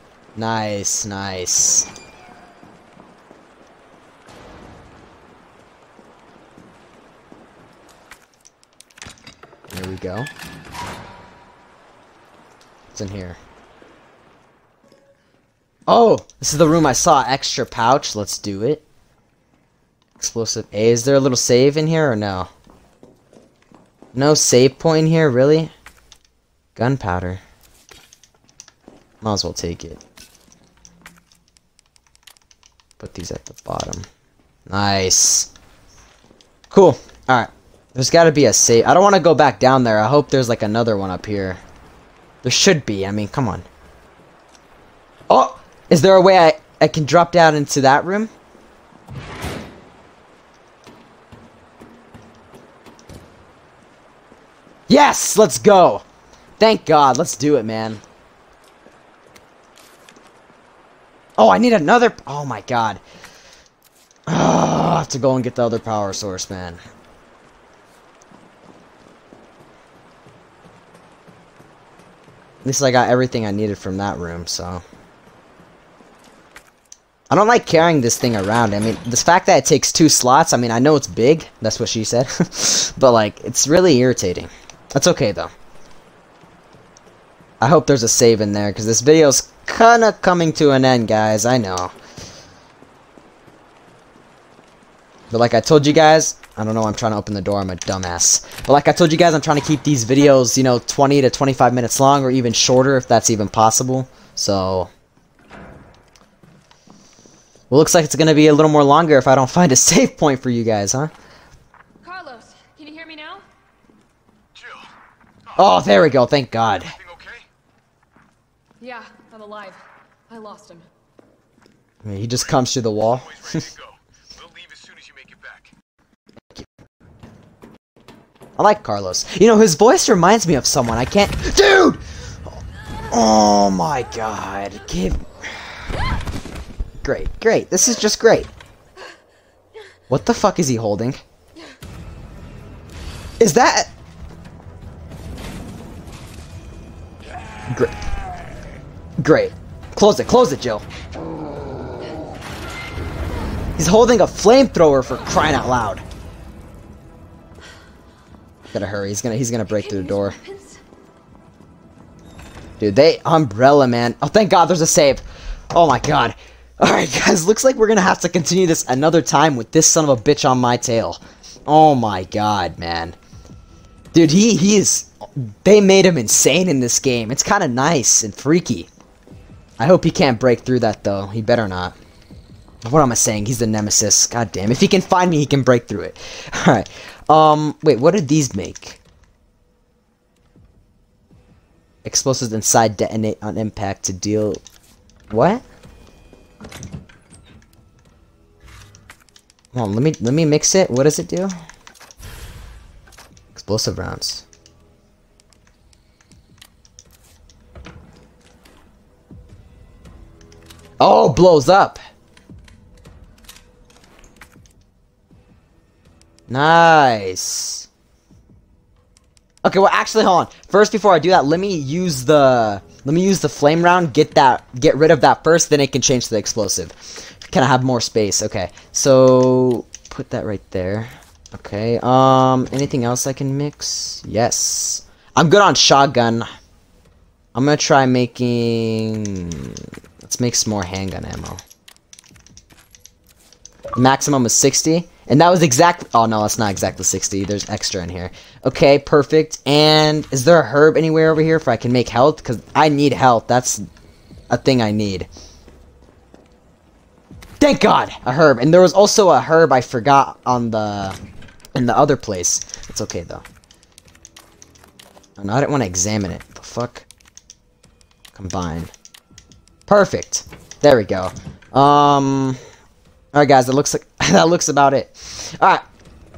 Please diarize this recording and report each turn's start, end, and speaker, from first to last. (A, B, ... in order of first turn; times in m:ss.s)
0:00.4-0:01.9 A
0:09.7-0:10.3 A
0:12.9-0:13.4 A
0:15.9-0:18.8 A
0:20.2-0:22.5 A
0:24.1-0:25.7 A
0:26.8-0:27.4 A
0:29.2-0:30.0 A
0:33.0-0:34.1 A
0:34.7-0:35.5 A
0:36.7-0:41.6 A
0:42.4-0:43.7 A
0:45.3-0:48.3 A
0:54.9-0:56.0 A
0:56.6-0:58.0 A
1:01.4-1:03.0 A
1:04.3-1:06.8 A
1:12.6-1:14.8 A
1:17.3-1:25.5 A
1:27.6-1:31.9 A
1:35.3-1:44.9 A
1:47.7-1:51.1 A
1:52.0-1:53.5 B
1:54.5-1:54.9 C
1:55.6-1:56.9 A
1:56.9-1:57.5 C
1:58.8-2:00.9 B
2:02.0-2:03.7 A
2:03.1-2:05.7 C
2:08.6-2:12.0 A
2:13.1-2:15.7 A
2:17.0-2:18.5 A
2:20.1-2:21.2 A
2:23.4-2:23.9 A
2:27.7-2:28.0 A
2:29.2-2:30.8 A
2:33.8-2:36.0 A
2:38.7-2:40.4 A
2:39.7-2:40.8 B
2:42.8-2:53.2 A
2:54.1-2:58.9 A
2:59.8-3:02.0 A
3:02.8-3:09.0 A
3:12.0-3:14.6 A
3:15.3-3:15.6 A
3:19.7-3:21.5 A
3:23.5-3:24.4 A
3:31.0-3:32.0 A
3:36.5-3:37.9 A
3:39.6-3:56.5 A
3:57.6-4:01.6 A
4:04.0-4:13.8 A
4:14.5-4:15.3 A
4:17.6-4:21.2 A
4:21.8-4:23.4 A
4:25.4-4:27.1 A
4:28.3-4:28.9 A
4:29.9-4:32.6 A
4:33.3-4:35.8 A